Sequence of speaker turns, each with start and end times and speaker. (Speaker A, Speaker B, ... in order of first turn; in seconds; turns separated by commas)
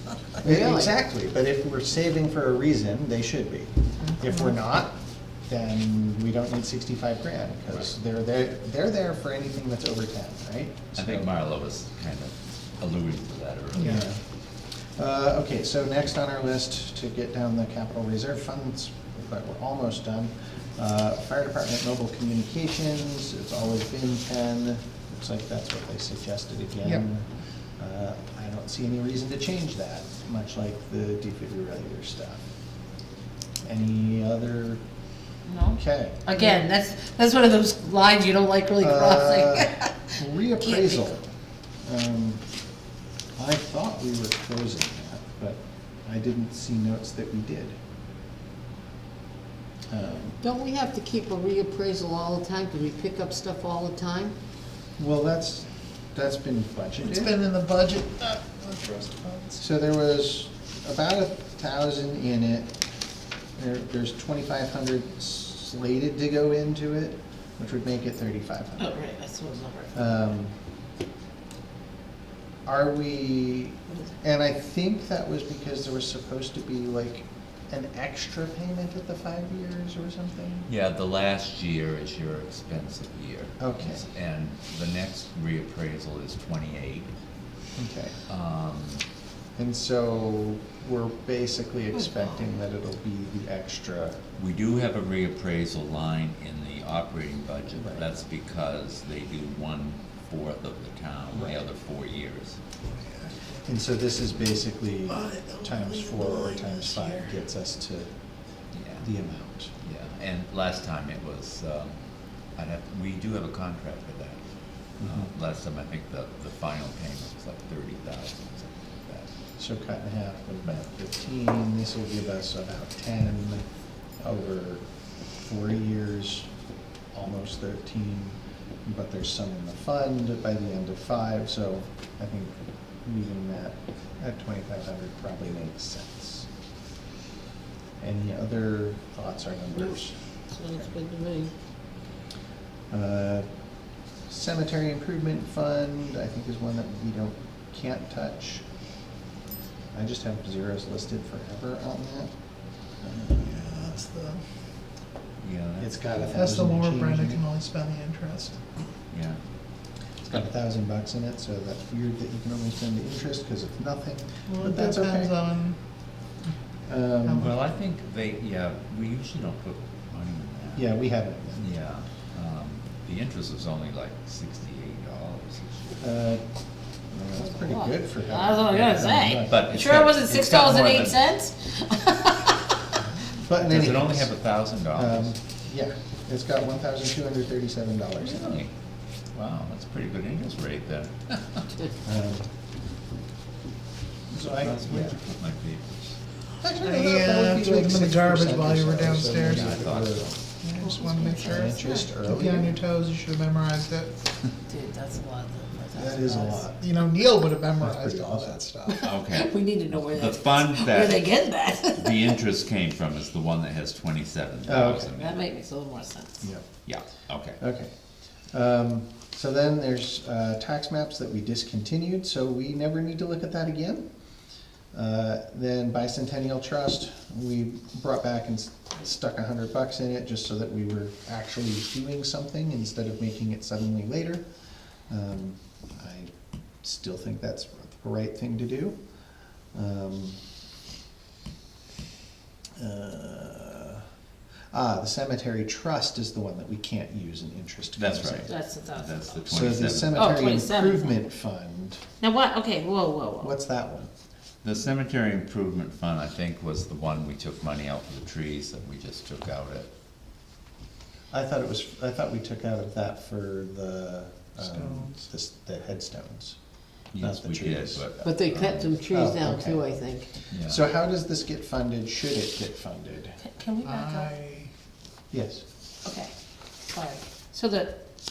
Speaker A: 0.4-11.3, Speaker B: 4.1-4.5, Speaker C: 11.0-14.1, Speaker B: 13.8-14.0, Speaker A: 13.8-14.2, Speaker A: 15.0-27.2, Speaker A: 27.8-32.4, Speaker A: 33.6-34.8, Speaker D: 35.5-39.9, Speaker A: 35.7-36.3, Speaker B: 36.4-36.6, Speaker A: 38.8-41.3, Speaker D: 40.6-41.1, Speaker A: 41.8-42.4, Speaker A: 43.4-47.8, Speaker A: 49.9-50.4, Speaker E: 50.4-54.3, Speaker A: 55.0-57.3, Speaker B: 57.0-59.6, Speaker A: 59.6-62.8, Speaker A: 63.6-69.0, Speaker D: 68.8-69.8, Speaker E: 69.5-69.9, Speaker A: 69.9-70.5, Speaker A: 72.7-80.7, Speaker C: 80.7-87.1, Speaker A: 83.6-84.0, Speaker A: 87.8-88.2, Speaker C: 88.3-89.0, Speaker A: 89.6-94.2, Speaker C: 94.4-102.6, Speaker A: 97.8-98.1, Speaker A: 101.3-101.7, Speaker B: 103.0-103.3, Speaker A: 103.7-108.1, Speaker B: 105.1-107.4, Speaker C: 108.7-109.1, Speaker A: 109.0-109.7, Speaker C: 109.8-112.0, Speaker C: 112.5-114.4, Speaker C: 115.0-118.8, Speaker A: 115.0-115.3, Speaker A: 119.0-123.6, Speaker A: 124.2-124.8, Speaker A: 125.4-126.5, Speaker A: 127.1-136.5, Speaker A: 138.0-140.2, Speaker E: 140.5-141.5, Speaker A: 142.9-143.4, Speaker A: 144.3-148.6, Speaker A: 149.9-152.3, Speaker A: 153.0-154.1, Speaker B: 153.5-154.4, Speaker C: 155.4-156.3, Speaker A: 155.8-157.4, Speaker B: 156.2-158.6, Speaker C: 159.1-159.4, Speaker A: 160.2-165.4, Speaker B: 164.5-165.8, Speaker A: 166.9-167.6, Speaker B: 167.2-167.5, Speaker C: 167.3-170.9, Speaker A: 170.8-171.7, Speaker C: 171.6-176.1, Speaker A: 176.0-176.4, Speaker A: 177.1-179.7, Speaker D: 177.5-181.6, Speaker C: 179.4-181.3, Speaker E: 181.8-182.5, Speaker A: 183.2-184.3, Speaker C: 183.5-185.3, Speaker A: 184.9-188.6, Speaker C: 188.2-188.7, Speaker C: 189.3-191.7, Speaker A: 192.0-192.5, Speaker A: 194.3-195.2, Speaker C: 194.4-196.2, Speaker A: 196.6-202.8, Speaker B: 196.8-199.8, Speaker C: 199.4-200.4, Speaker B: 200.6-204.2, Speaker D: 201.0-201.5, Speaker D: 204.7-205.4, Speaker E: 204.8-206.7, Speaker A: 205.9-207.1, Speaker B: 206.8-209.1, Speaker A: 207.8-208.7, Speaker E: 208.9-212.3, Speaker C: 209.0-215.4, Speaker A: 214.6-215.2, Speaker D: 215.2-216.2, Speaker A: 216.4-216.7, Speaker C: 216.8-217.6, Speaker A: 217.6-217.9, Speaker A: 218.5-224.0, Speaker A: 224.9-234.4, Speaker A: 235.1-236.3, Speaker A: 236.8-239.0, Speaker A: 239.7-240.4, Speaker A: 242.8-244.0, Speaker A: 244.7-248.5, Speaker C: 248.0-250.2, Speaker D: 248.5-249.4, Speaker A: 249.4-252.0, Speaker D: 250.2-251.1, Speaker D: 252.2-253.5, Speaker A: 253.4-254.1, Speaker C: 254.6-259.9, Speaker A: 261.3-266.6, Speaker B: 264.6-265.3, Speaker C: 267.1-269.0, Speaker A: 267.2-268.1, Speaker E: 268.2-270.3, Speaker A: 269.1-269.9, Speaker C: 270.5-270.9, Speaker A: 270.5-273.4, Speaker D: 273.4-274.2, Speaker B: 273.8-274.7, Speaker A: 275.3-275.6, Speaker D: 276.0-276.3, Speaker D: 276.9-277.9